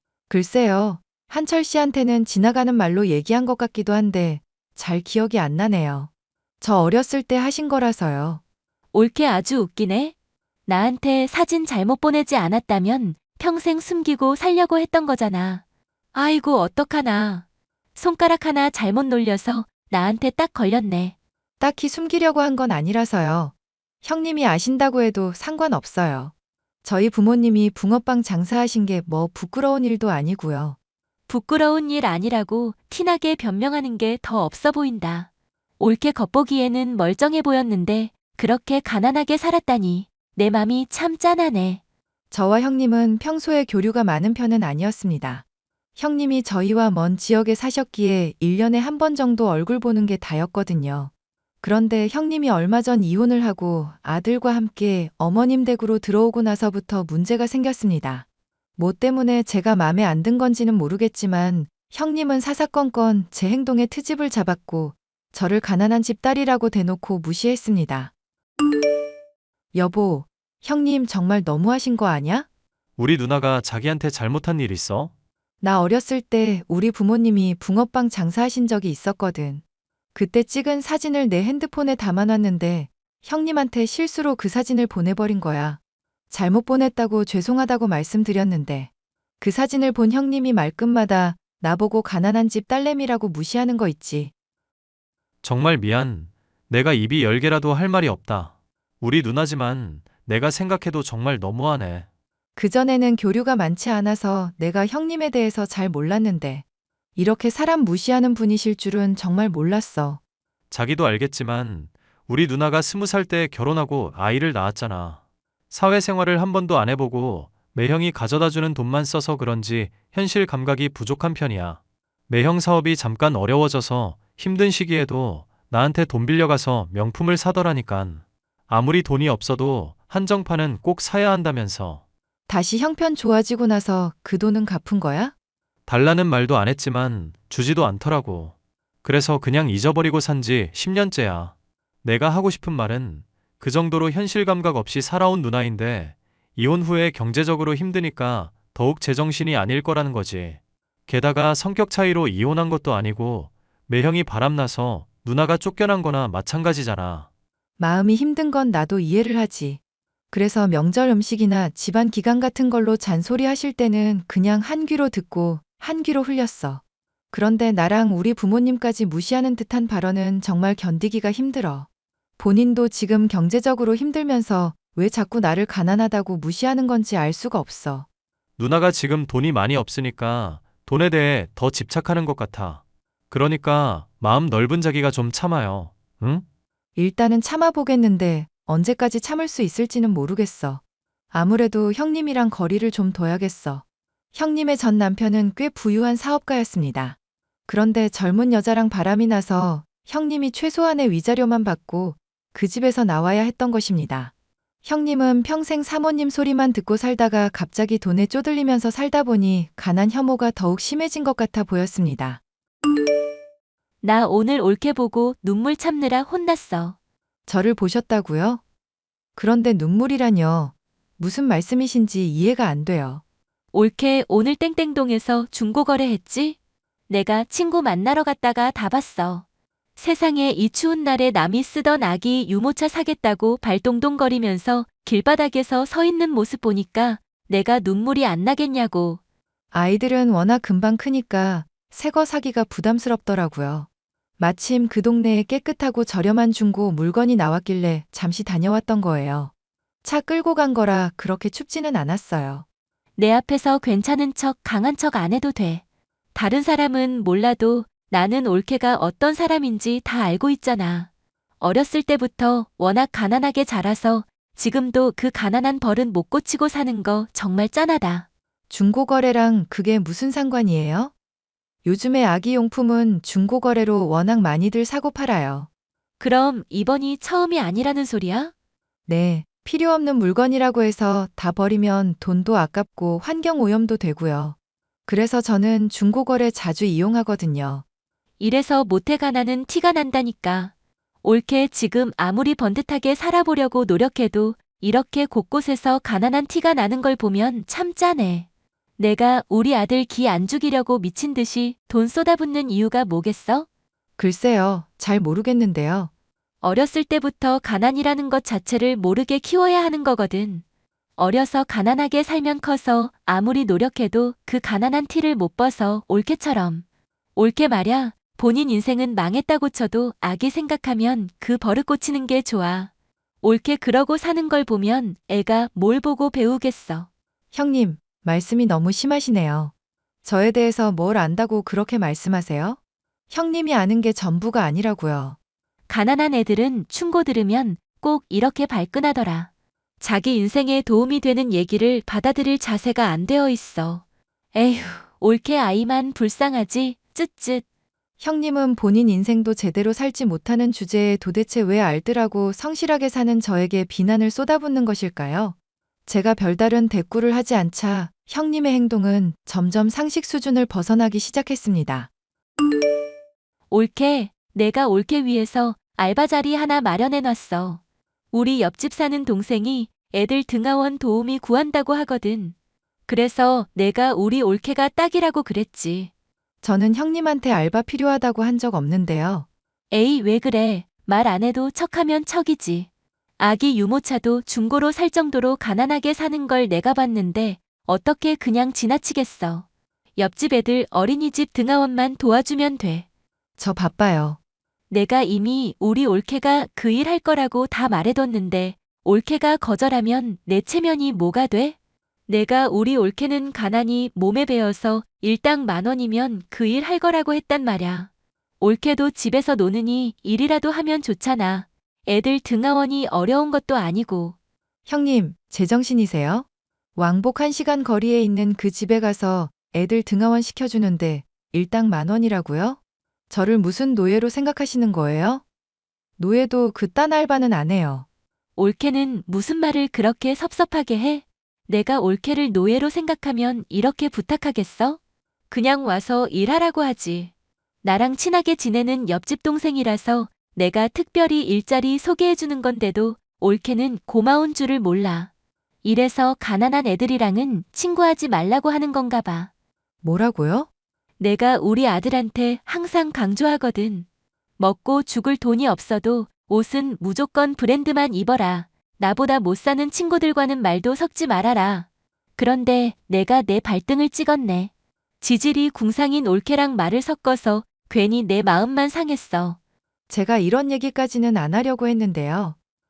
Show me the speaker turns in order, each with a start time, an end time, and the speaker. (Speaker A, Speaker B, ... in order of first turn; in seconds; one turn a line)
Speaker A: 0.3-6.1
Speaker A: 6.6-8.4
Speaker B: 8.9-10.1
Speaker B: 10.7-15.6
Speaker B: 16.1-17.4
Speaker B: 17.9-21.1
Speaker A: 21.6-26.3
Speaker A: 26.8-30.8
Speaker B: 31.3-41.8
Speaker A: 42.3-45.4
Speaker A: 46.0-51.1
Speaker A: 51.6-58.2
Speaker A: 58.8-68.1
Speaker A: 69.7-72.5
Speaker C: 73.0-75.1
Speaker A: 75.6-79.6
Speaker A: 80.1-85.8
Speaker A: 86.3-88.9
Speaker A: 89.4-94.3
Speaker C: 95.4-102.1
Speaker A: 102.5-106.6
Speaker A: 107.2-110.2
Speaker C: 110.7-115.2
Speaker C: 115.7-132.0
Speaker A: 132.5-135.3
Speaker C: 135.9-138.5
Speaker C: 139.0-157.3
Speaker A: 157.8-159.8
Speaker A: 160.3-166.8
Speaker A: 167.3-171.9
Speaker A: 172.4-178.1
Speaker C: 178.6-186.4
Speaker A: 186.9-190.8
Speaker A: 191.3-193.8
Speaker A: 194.3-197.2
Speaker A: 197.7-204.3
Speaker A: 204.8-212.4
Speaker B: 214.0-216.9
Speaker A: 217.5-218.6
Speaker A: 219.3-223.2
Speaker B: 223.7-226.6
Speaker B: 227.1-229.4
Speaker B: 230.0-239.2
Speaker A: 239.7-243.9
Speaker A: 244.4-249.5
Speaker A: 250.0-252.6
Speaker B: 253.2-255.8
Speaker B: 256.3-261.1
Speaker B: 261.6-268.2
Speaker A: 268.7-271.1
Speaker A: 271.8-275.7
Speaker B: 276.2-278.5
Speaker A: 279.1-284.5
Speaker A: 285.1-287.8
Speaker B: 288.4-290.7
Speaker B: 291.2-298.4
Speaker B: 299.0-303.7
Speaker A: 304.2-306.1
Speaker B: 306.6-310.6
Speaker B: 311.2-316.8
Speaker B: 317.4-322.9
Speaker B: 323.4-327.1
Speaker A: 327.5-329.7
Speaker A: 330.2-332.8
Speaker A: 333.3-335.4
Speaker B: 335.9-339.5
Speaker B: 340.0-344.0
Speaker B: 344.5-347.6
Speaker A: 348.2-355.5
Speaker A: 356.1-362.1
Speaker B: 363.7-367.8
Speaker B: 368.3-372.5
Speaker B: 373.1-376.1
Speaker A: 376.6-379.4
Speaker B: 379.9-382.9
Speaker B: 383.4-389.6
Speaker B: 390.1-393.0
Speaker A: 393.6-394.4
Speaker B: 394.9-401.7
Speaker B: 402.3-414.3
Speaker A: 414.9-422.8
Speaker A: 423.3-425.4
Speaker A: 426.2-428.1
Speaker B: 428.6-435.0
Speaker B: 435.5-437.3
Speaker B: 437.8-445.3
Speaker B: 445.8-449.5
Speaker A: 450.0-450.7
Speaker B: 451.2-454.1
Speaker B: 454.6-461.9
Speaker B: 462.4-464.7
Speaker B: 465.2-469.6
Speaker A: 470.1-472.6